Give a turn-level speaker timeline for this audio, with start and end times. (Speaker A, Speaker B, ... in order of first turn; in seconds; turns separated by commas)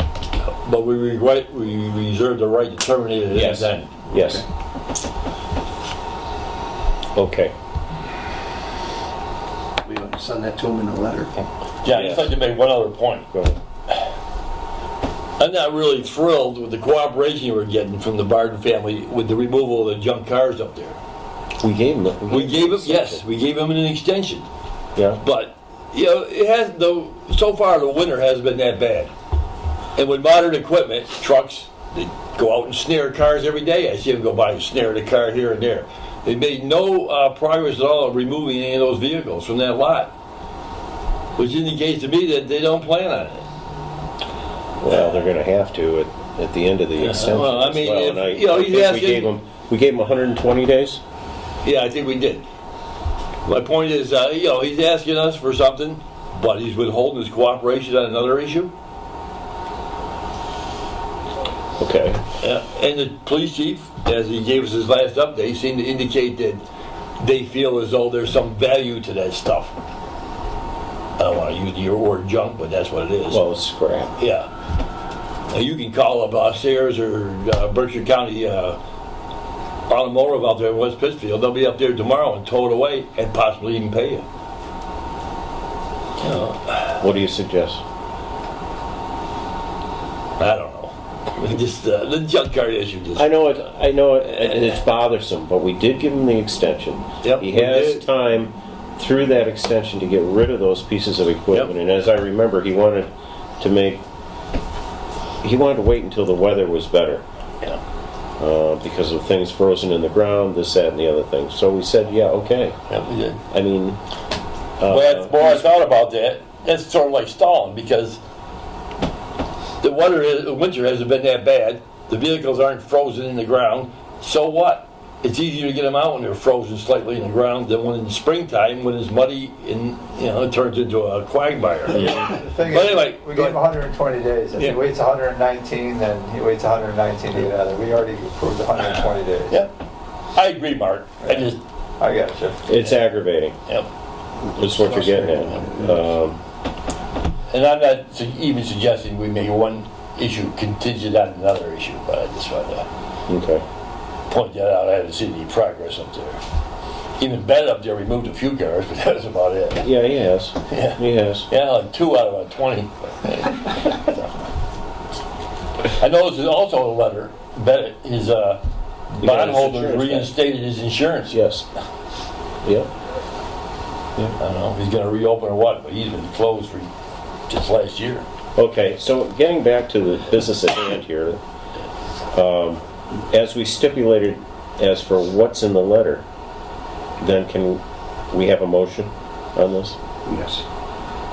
Speaker A: 0.4-4.1, Speaker B: 3.3-4.4, Speaker C: 4.1-4.4, Speaker B: 7.2-7.5, Speaker C: 9.8-11.3, Speaker A: 11.8-13.3, Speaker B: 11.9-12.3, Speaker A: 15.4-21.0, Speaker B: 21.6-23.2, Speaker A: 22.3-24.5, Speaker B: 25.0-25.2, Speaker A: 25.2-29.1, Speaker A: 30.0-40.1, Speaker A: 41.4-43.5, Speaker B: 44.8-51.0, Speaker A: 47.0-49.3, Speaker A: 51.6-52.5, Speaker A: 53.5-58.7, Speaker B: 61.8-62.2, Speaker A: 62.4-66.6, Speaker A: 67.2-69.8, Speaker A: 71.2-73.4, Speaker B: 73.3-74.1, Speaker A: 74.2-74.5, Speaker A: 75.5-78.8, Speaker A: 79.9-84.2, Speaker A: 86.2-87.0, Speaker B: 87.0-87.8, Speaker A: 90.4-93.3, Speaker B: 93.2-104.0, Speaker A: 97.2-98.0, Speaker B: 105.4-107.2, Speaker B: 108.4-112.8, Speaker A: 112.9-113.4, Speaker B: 113.5-114.0, Speaker B: 114.8-115.6, Speaker A: 114.8-118.2, Speaker A: 119.8-133.6, Speaker D: 132.3-139.6, Speaker A: 138.8-139.7, Speaker A: 140.3-141.6, Speaker D: 141.2-141.5, Speaker D: 142.0-142.7, Speaker B: 142.7-143.6, Speaker B: 144.6-146.4, Speaker C: 144.6-146.0, Speaker A: 147.5-152.9, Speaker B: 153.3-153.6, Speaker A: 154.3-156.4, Speaker A: 157.2-159.9, Speaker B: 159.8-161.5, Speaker A: 160.7-164.4, Speaker A: 166.0-171.4, Speaker B: 169.2-170.3, Speaker B: 171.3-171.7, Speaker A: 174.4-176.9, Speaker A: 177.5-178.2, Speaker B: 178.6-181.4, Speaker B: 182.3-186.2, Speaker B: 187.2-190.0, Speaker C: 190.2-190.7